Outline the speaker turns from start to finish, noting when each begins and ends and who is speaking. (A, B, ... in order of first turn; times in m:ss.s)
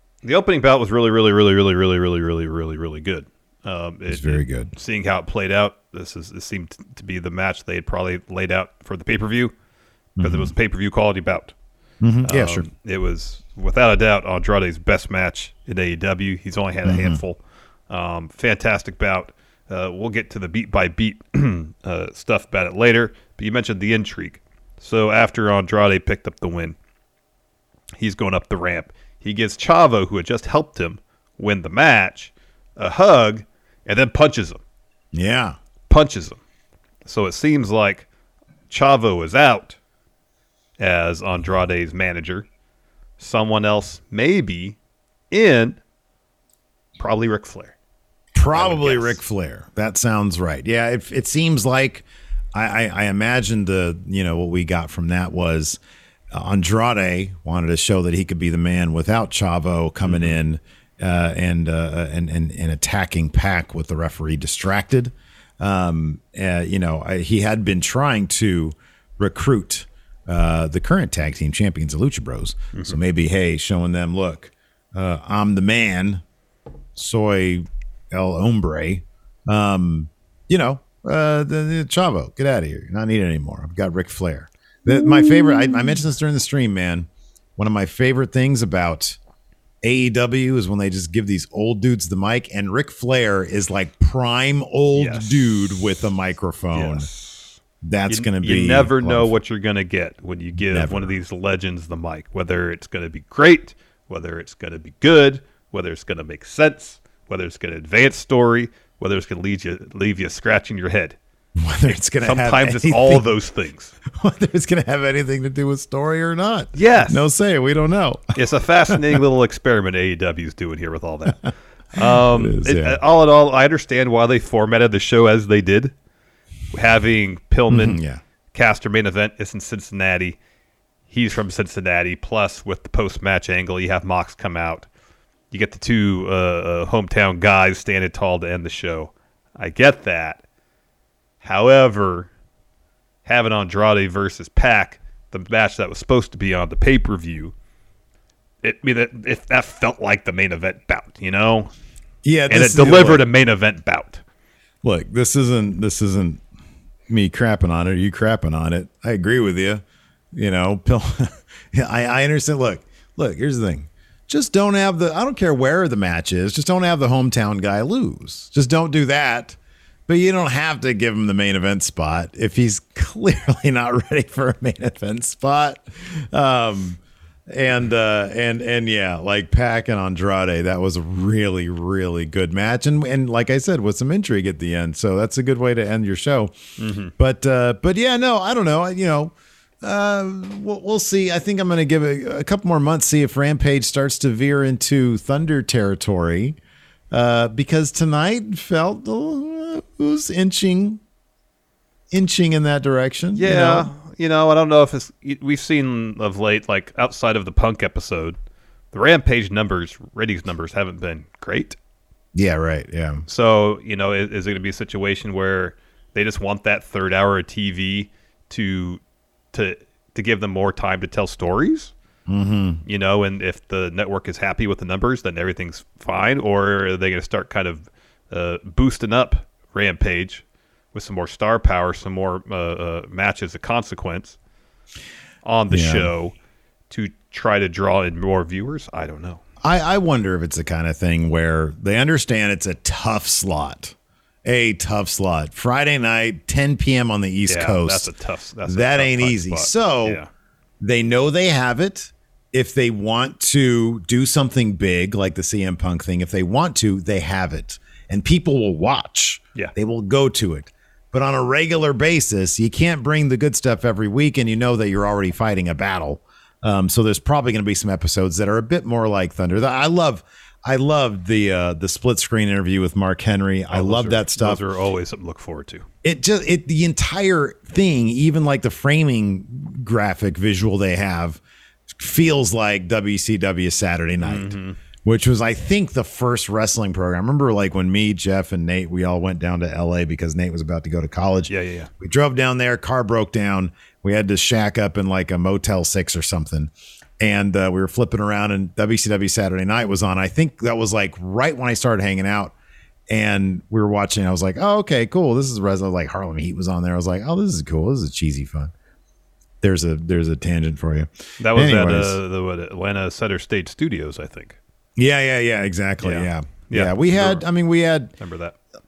0:00.2-0:09.5 A
0:04.1-0:04.7 B
0:10.2-0:10.5 B
0:10.2-0:11.5 A
0:12.0-0:12.7 B
0:12.3-0:17.4 A
0:16.8-0:17.2 B
0:17.9-0:26.8 A
0:28.0-0:34.6 A
0:35.1-0:35.6 B
0:35.9-0:36.4 A
0:37.0-0:38.1 A
0:38.7-0:39.8 A
0:40.8-0:42.5 A
0:43.2-0:44.8 A
0:45.3-0:45.8 A
0:47.0-0:47.8 A
0:48.4-0:55.8 B
0:48.5-0:49.2 A
0:56.3-1:16.2 B
1:00.0-1:00.4 A
1:17.0-1:29.2 B
1:29.8-1:37.1 B
1:34.9-1:36.1 A
1:36.7-1:37.6 A
1:37.8-1:39.4 B
1:38.1-1:51.2 A
1:40.7-1:41.2 B
1:51.6-1:53.3 B
1:52.2-1:53.9 A
1:54.1-1:59.2 B
1:56.8-1:57.3 A
1:58.4-2:05.9 A
2:02.0-2:03.0 B
2:06.7-2:08.0 A
2:07.7-2:08.2 B
2:08.5-2:10.4 A
2:11.1-2:14.9 A
2:15.5-2:20.4 A
2:21.4-2:22.3 A
2:23.3-2:27.5 A
2:28.6-2:31.7 A
2:32.2-2:33.2 B
2:32.5-2:34.2 A
2:34.8-2:36.4 B
2:37.1-3:06.5 B
3:06.8-3:07.1 A
3:07.2-3:16.6 B
3:17.1-3:21.0 B
3:22.1-3:23.9 B
3:23.4-3:28.4 A
3:28.9-3:31.8 A
3:32.4-3:33.2 B
3:33.3-3:39.0 A
3:39.5-3:41.9 A
3:42.3-3:42.8 B
3:42.9-3:54.4 A
3:55.4-3:56.3 A
3:55.7-3:56.1 B
3:56.9-3:59.4 A
3:59.6-4:08.1 B
4:07.5-4:10.3 A
4:08.7-4:10.2 B
4:10.8-4:34.6 B
4:33.7-4:35.9 A
4:36.0-4:41.4 B
4:41.9-5:02.5 B
4:44.2-4:44.8 A
4:51.5-4:51.9 A
5:03.1-5:08.7 B
5:09.6-5:12.2 B
5:11.4-5:14.6 A
5:15.0-5:18.1 B
5:16.0-5:17.4 A
5:18.2-5:18.6 A